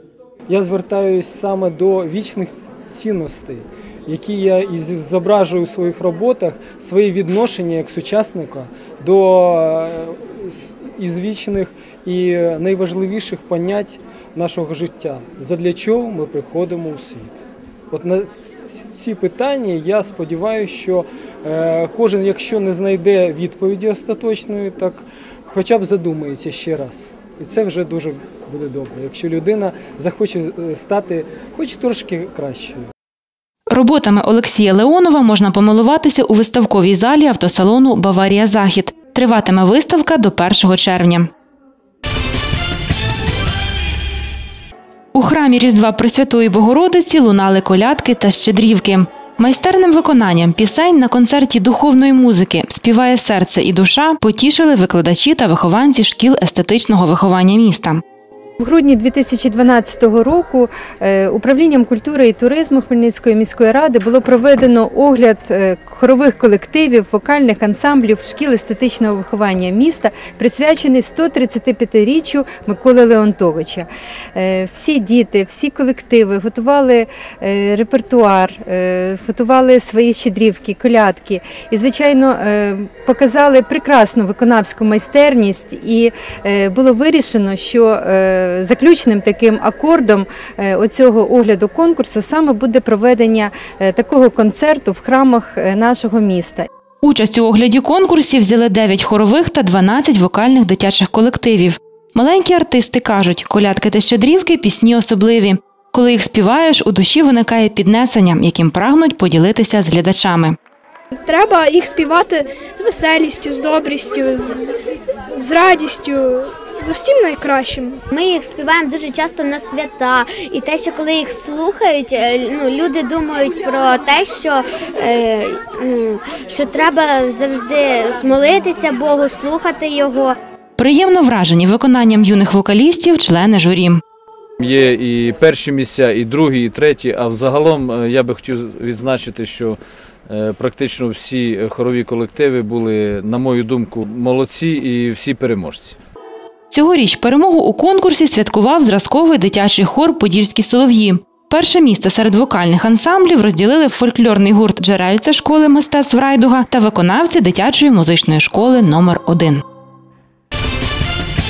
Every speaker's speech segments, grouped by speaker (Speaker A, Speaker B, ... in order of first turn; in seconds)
Speaker A: 0.5-32.9
Speaker B: 33.7-41.3, 45.1-58.0, 97.0-110.6, 130.8-134.0, 146.7-159.6
Speaker C: 58.6-96.7
Speaker D: 111.2-114.7, 115.4-118.0
Speaker E: 118.1-130.3
Speaker F: 134.6-146.0